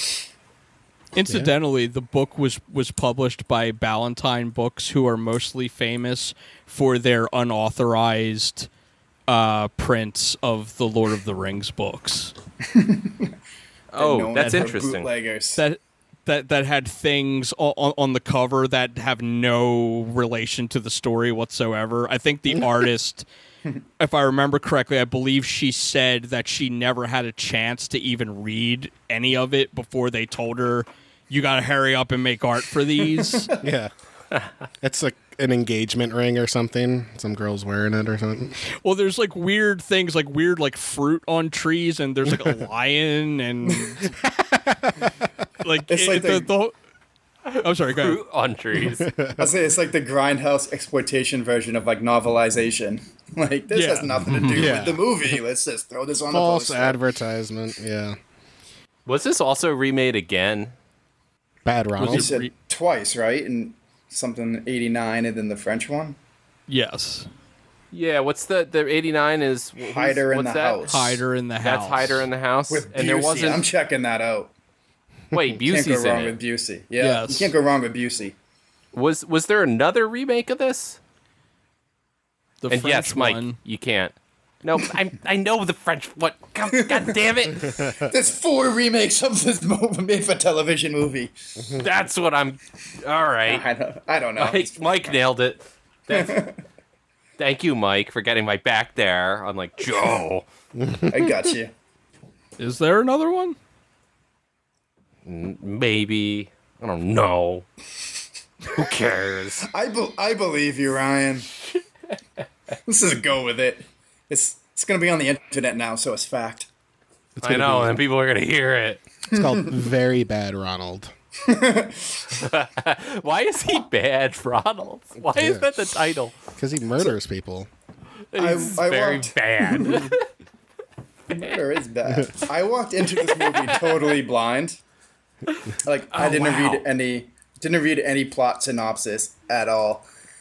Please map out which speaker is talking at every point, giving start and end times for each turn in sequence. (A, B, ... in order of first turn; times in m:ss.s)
0:01.1-0:08.7 A
0:09.3-0:12.3 A
0:12.6-0:13.4 B
0:13.9-0:15.1 C
0:14.0-0:15.6 B
0:14.4-0:14.7 A
0:15.5-0:23.2 A
0:24.0-0:33.5 A
0:33.2-0:33.5 B
0:33.6-0:33.9 D
0:34.8-0:38.6 D
0:38.8-0:44.0 A
0:44.4-0:45.1 D
0:45.6-0:46.8 A
0:45.9-0:46.5 B
0:47.5-0:49.1 C
0:47.6-0:48.2 A
0:49.0-0:49.5 D
0:49.4-0:57.0 B
0:53.7-0:54.1 A
0:54.3-0:54.7 C
0:54.5-0:55.2 D
0:56.3-0:58.2 D
0:59.1-1:00.7 C
1:01.6-1:02.3 D
1:02.0-1:02.5 A
1:02.0-1:06.2 B
1:06.7-1:07.3 A
1:07.9-1:10.9 C
1:09.8-1:11.2 B
1:10.9-1:12.2 A
1:11.6-1:13.6 C
1:12.7-1:14.5 B
1:15.3-1:16.4 C
1:15.6-1:18.4 B
1:17.0-1:17.5 A
1:18.9-1:21.0 C
1:22.6-1:23.6 A
1:22.7-1:27.8 C
1:27.9-1:31.3 B
1:31.8-1:33.6 C
1:33.5-1:35.2 B
1:34.4-1:36.4 C
1:36.1-1:36.6 B
1:37.4-1:40.4 C
1:40.8-1:41.4 D
1:41.1-1:41.7 B
1:42.6-1:43.6 A
1:45.3-1:47.7 C
1:48.7-1:49.7 C
1:49.6-1:51.5 B
1:52.9-1:56.7 B
1:57.4-1:58.0 D
1:57.4-1:59.0 C
1:59.3-2:01.1 D
1:59.3-1:59.7 B
2:01.5-2:02.4 B
2:02.4-2:06.4 C
2:05.3-2:05.7 D
2:06.6-2:07.7 D
2:08.3-2:10.2 C
2:08.4-2:10.1 B
2:11.3-2:14.8 B
2:13.2-2:13.9 C
2:15.8-2:20.1 B
2:16.1-2:16.8 C